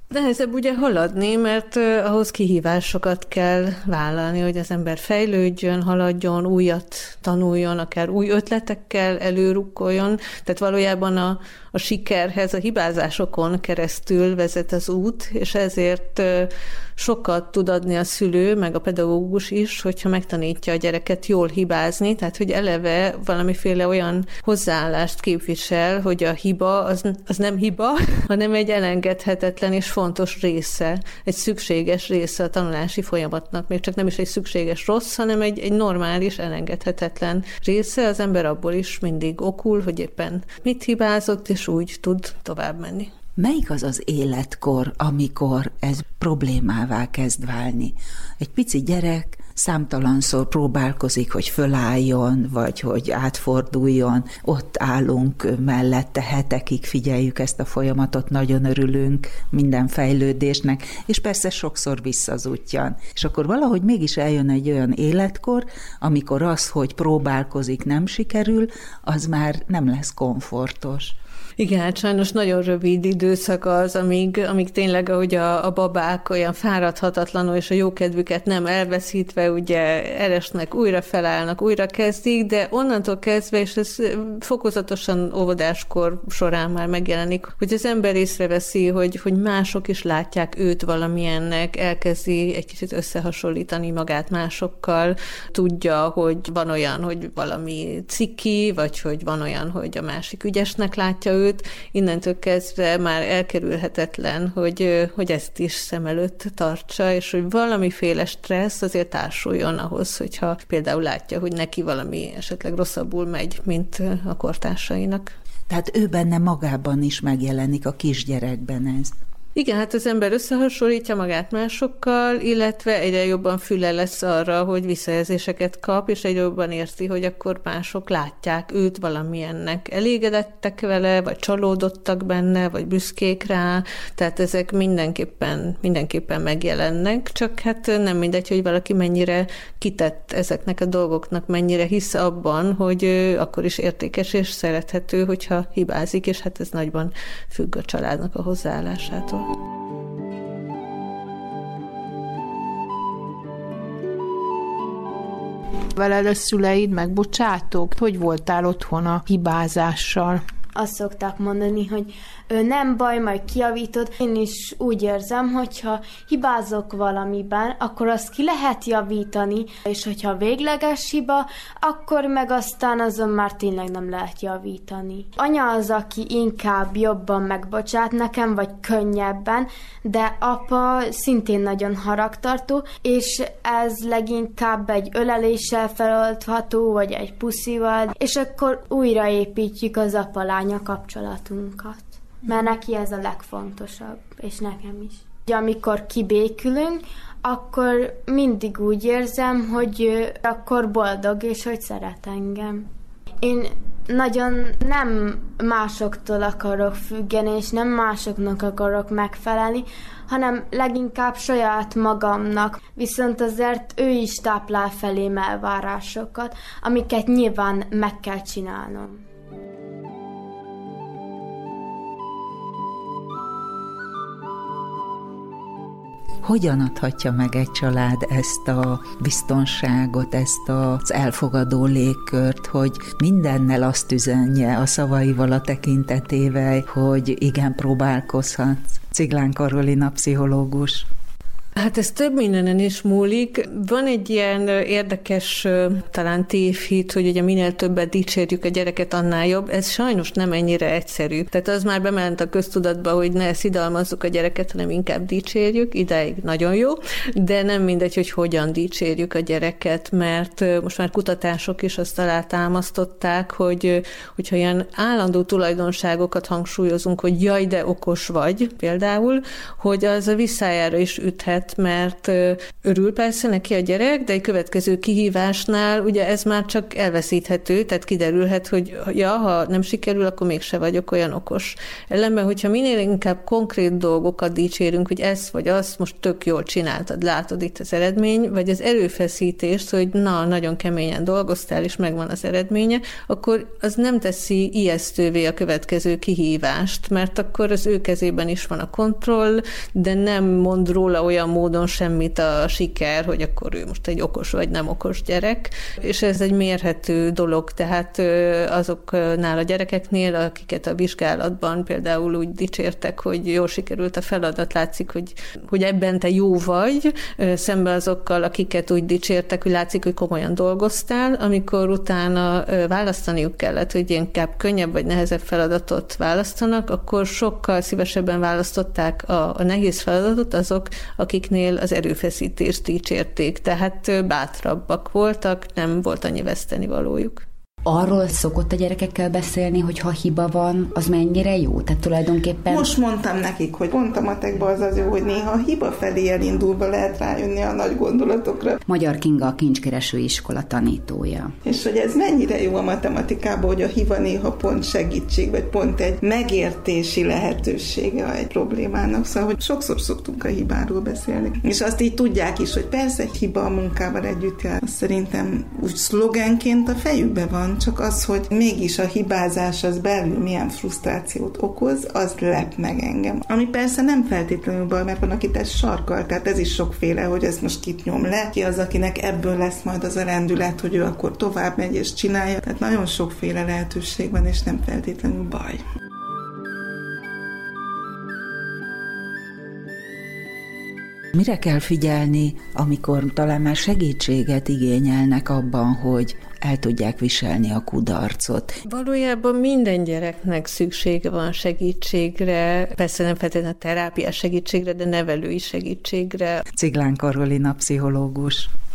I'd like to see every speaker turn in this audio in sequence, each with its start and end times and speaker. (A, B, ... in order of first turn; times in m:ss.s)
0:00.1-0:43.1 A
0:43.4-1:11.2 B
1:11.6-1:55.3 A
1:55.7-1:59.1 B
1:59.6-2:29.5 A
2:36.0-2:40.4 C
2:40.8-3:22.9 D
3:23.4-3:39.2 D
3:46.4-4:01.1 B
4:01.8-5:37.4 A
5:37.8-5:42.9 E
5:42.7-5:48.8 F
5:48.9-5:51.5 E
5:51.6-6:25.8 F
6:31.3-6:38.8 B
6:38.9-6:46.6 A
6:46.7-6:48.7 B